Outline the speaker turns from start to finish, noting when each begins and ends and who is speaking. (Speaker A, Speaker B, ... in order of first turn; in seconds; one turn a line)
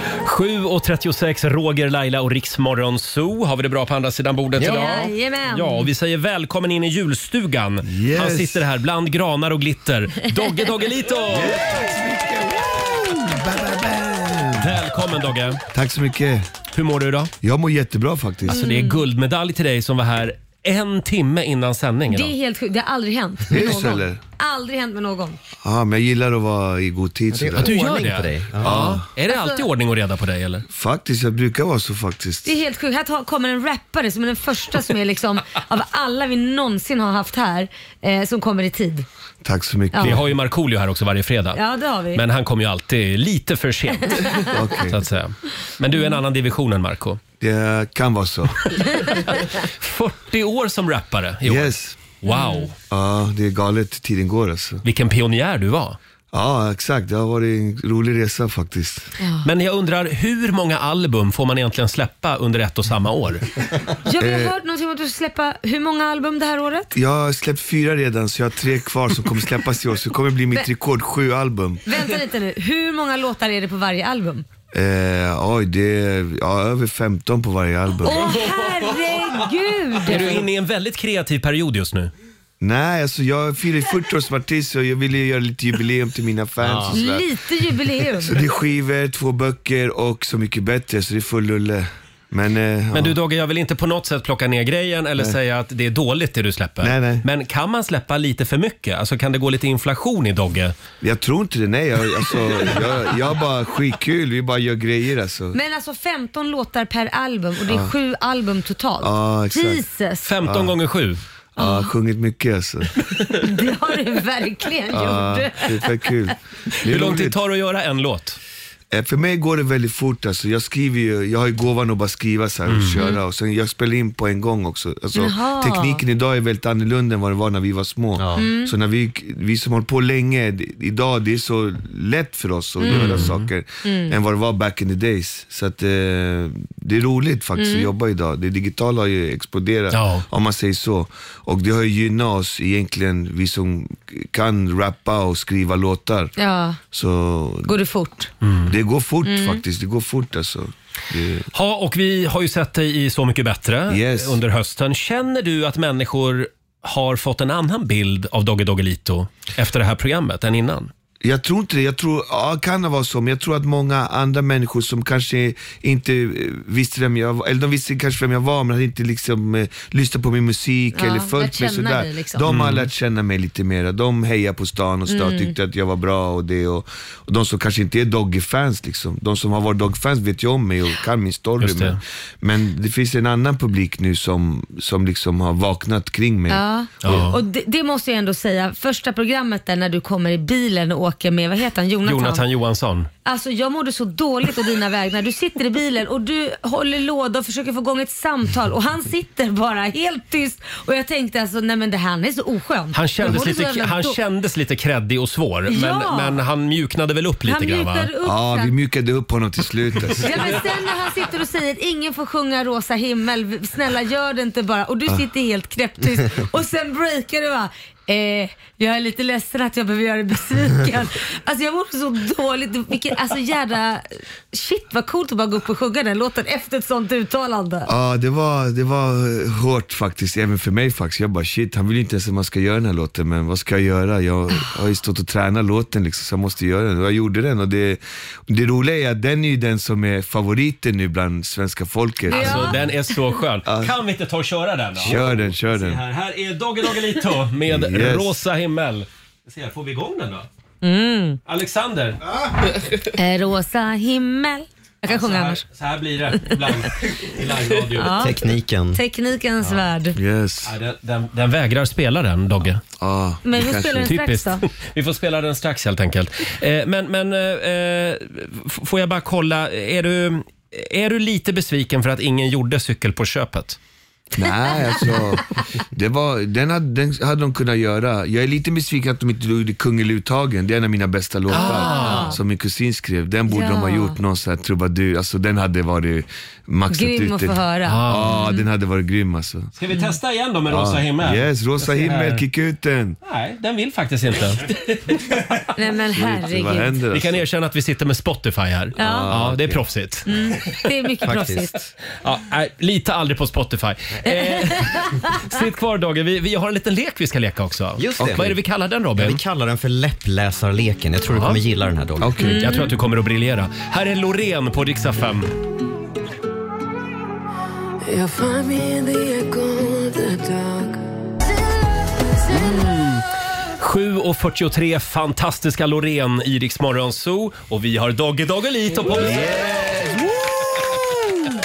Speaker A: 0.2-11.8
Speaker B: 4.6-5.0
Speaker C: 4.6-5.9
Speaker D: 7.8-8.7
Speaker D: 11.3-14.8
Speaker A: 14.6-15.6
Speaker D: 15.7-16.5
Speaker A: 16.7-17.3
Speaker D: 17.4-18.6
Speaker A: 18.5-22.3
Speaker C: 18.5-19.0
Speaker C: 22.1-25.4
Speaker D: 23.5-24.2
Speaker D: 25.6-27.7
Speaker B: 27.3-28.8
Speaker A: 27.6-30.6
Speaker D: 28.6-29.1
Speaker C: 29.3-29.6
Speaker D: 30.7-32.6
Speaker C: 32.5-39.0
Speaker D: 39.4-40.2
Speaker C: 39.9-40.2
Speaker A: 40.0-41.6
Speaker C: 41.5-42.2
Speaker A: 42.1-47.2
Speaker C: 44.1-44.4
Speaker D: 44.5-45.0
Speaker D: 47.4-48.6
Speaker A: 49.0-52.8
Speaker D: 51.4-52.1
Speaker C: 52.3-52.7
Speaker D: 52.9-54.8
Speaker A: 54.8-56.0
Speaker D: 56.3-59.1
Speaker A: 59.4-63.4
Speaker C: 64.0-66.9
Speaker D: 64.2-64.5
Speaker D: 66.9-71.8
Speaker C: 71.8-74.4
Speaker D: 74.7-78.4
Speaker C: 78.0-80.4
Speaker A: 80.0-82.1
Speaker D: 82.6-87.3
Speaker B: 86.6-86.9
Speaker C: 86.9-88.4
Speaker D: 88.2-93.2
Speaker A: 92.9-100.7
Speaker D: 96.8-97.2
Speaker D: 101.0-105.6
Speaker C: 105.5-110.3
Speaker D: 107.6-107.9
Speaker D: 109.0-109.8
Speaker A: 110.2-111.2
Speaker D: 110.4-110.8
Speaker D: 111.5-112.9
Speaker C: 111.6-111.9
Speaker C: 113.4-116.0
Speaker D: 114.9-117.4
Speaker A: 116.8-118.4
Speaker D: 118.9-146.3
Speaker A: 122.7-123.0
Speaker C: 125.1-126.0
Speaker B: 128.2-128.4
Speaker C: 128.3-128.7
Speaker C: 132.8-133.3
Speaker A: 132.9-133.5
Speaker C: 133.8-134.1
Speaker C: 137.6-137.9
Speaker A: 139.9-140.2
Speaker C: 146.4-146.8
Speaker D: 146.8-147.7
Speaker C: 147.6-148.3
Speaker A: 148.4-148.8
Speaker D: 148.7-151.5
Speaker C: 149.2-149.6
Speaker A: 151.5-160.9
Speaker D: 153.9-154.4
Speaker D: 161.2-187.2
Speaker C: 170.9-172.4
Speaker A: 172.5-172.9
Speaker C: 175.1-175.5
Speaker A: 181.6-182.0
Speaker C: 186.5-192.4
Speaker A: 187.0-187.4
Speaker A: 192.0-193.1
Speaker C: 193.2-204.2
Speaker A: 202.9-208.1
Speaker C: 205.7-206.4
Speaker C: 207.4-208.7
Speaker D: 208.2-210.6
Speaker C: 210.2-227.9
Speaker D: 227.8-242.8
Speaker C: 242.3-242.8
Speaker A: 242.3-250.4
Speaker D: 243.6-243.9
Speaker D: 244.9-246.0
Speaker D: 247.7-248.4
Speaker C: 250.8-251.4
Speaker A: 251.4-252.2
Speaker C: 253.1-255.6
Speaker A: 255.1-258.3
Speaker C: 257.9-258.3
Speaker B: 258.1-259.0
Speaker C: 258.9-260.2
Speaker D: 260.1-260.7
Speaker A: 260.6-262.8
Speaker D: 263.0-264.1
Speaker C: 263.4-264.6
Speaker A: 264.0-273.8
Speaker D: 274.4-289.7
Speaker A: 281.5-282.4
Speaker C: 281.5-282.4
Speaker C: 283.5-284.2
Speaker C: 286.9-288.6
Speaker A: 287.9-288.5
Speaker A: 289.8-292.4
Speaker D: 290.6-293.2
Speaker A: 293.2-295.6
Speaker C: 295.8-297.0
Speaker D: 296.1-297.4
Speaker A: 297.1-300.2
Speaker C: 299.0-299.3
Speaker D: 299.0-299.8
Speaker C: 300.3-301.7
Speaker B: 301.2-301.9
Speaker A: 302.2-309.4
Speaker C: 304.3-305.3
Speaker B: 308.0-308.6
Speaker D: 308.2-308.5
Speaker B: 309.2-312.4
Speaker A: 311.3-311.6
Speaker D: 312.2-312.7
Speaker C: 312.4-312.9
Speaker A: 312.4-315.5
Speaker E: 318.0-320.9
Speaker A: 322.5-323.3
Speaker A: 323.8-330.2
Speaker D: 329.0-331.1